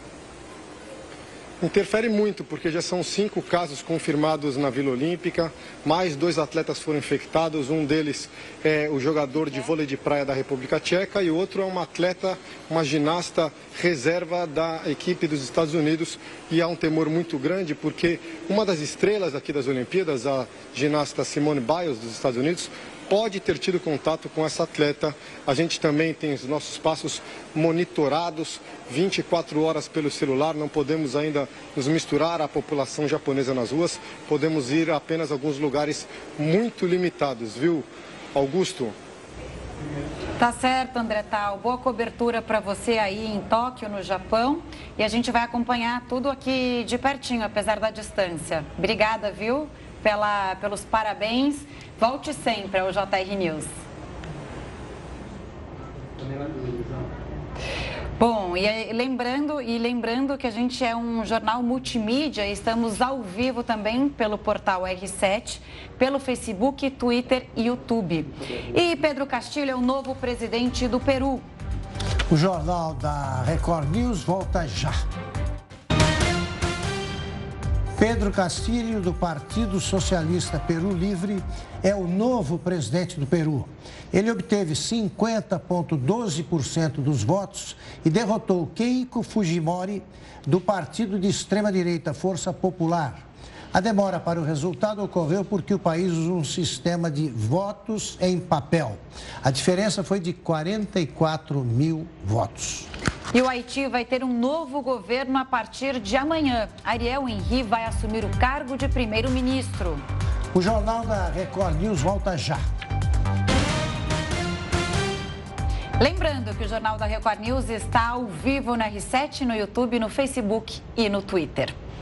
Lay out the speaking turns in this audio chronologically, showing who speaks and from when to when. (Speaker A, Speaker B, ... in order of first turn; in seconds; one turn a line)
Speaker A: 1.6-38.9
Speaker B: 40.4-53.7
Speaker B: 58.2-71.5
Speaker C: 72.3-75.0
Speaker C: 78.0-102.9
Speaker B: 103.3-110.0
Speaker C: 110.5-112.6
Speaker B: 116.0-121.8